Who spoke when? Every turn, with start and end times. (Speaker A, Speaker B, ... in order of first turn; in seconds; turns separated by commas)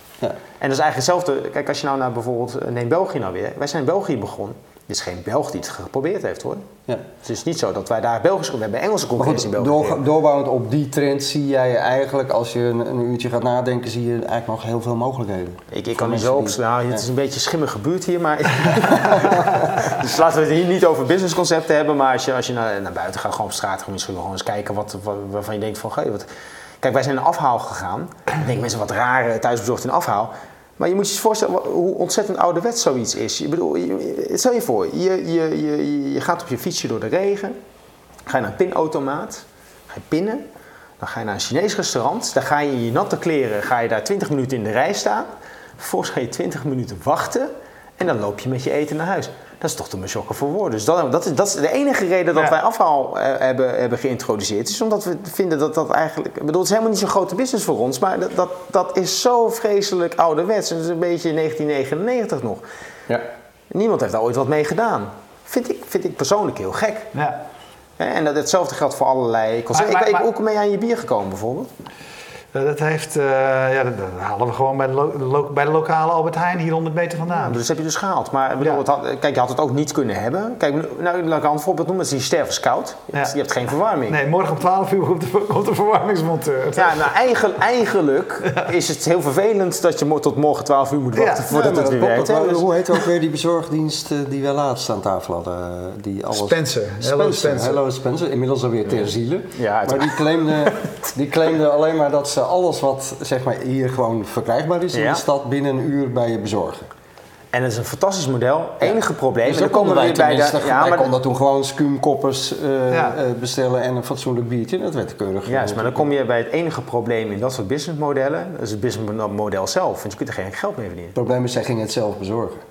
Speaker A: 0.6-6.6, Speaker A: 7.2-10.0, Speaker B: 9.2-17.0, Speaker A: 15.7-26.3, Speaker B: 19.0-19.6, Speaker A: 26.8-37.6, Speaker A: 38.3-40.4, Speaker A: 41.0-45.3, Speaker A: 45.8-62.6, Speaker A: 63.7-67.1, Speaker C: 67.1-67.4, Speaker A: 68.0-71.7, Speaker C: 69.7-70.3, Speaker C: 72.5-77.6, Speaker A: 77.3-84.2, Speaker C: 84.1-87.1, Speaker A: 86.8-93.0, Speaker C: 91.2-91.5, Speaker B: 91.5-106.9, Speaker C: 96.3-97.8, Speaker A: 99.0-101.1, Speaker A: 104.9-105.2, Speaker A: 107.5-111.2, Speaker B: 108.8-116.1, Speaker C: 112.9-113.2, Speaker A: 115.5-121.2, Speaker B: 121.2-122.6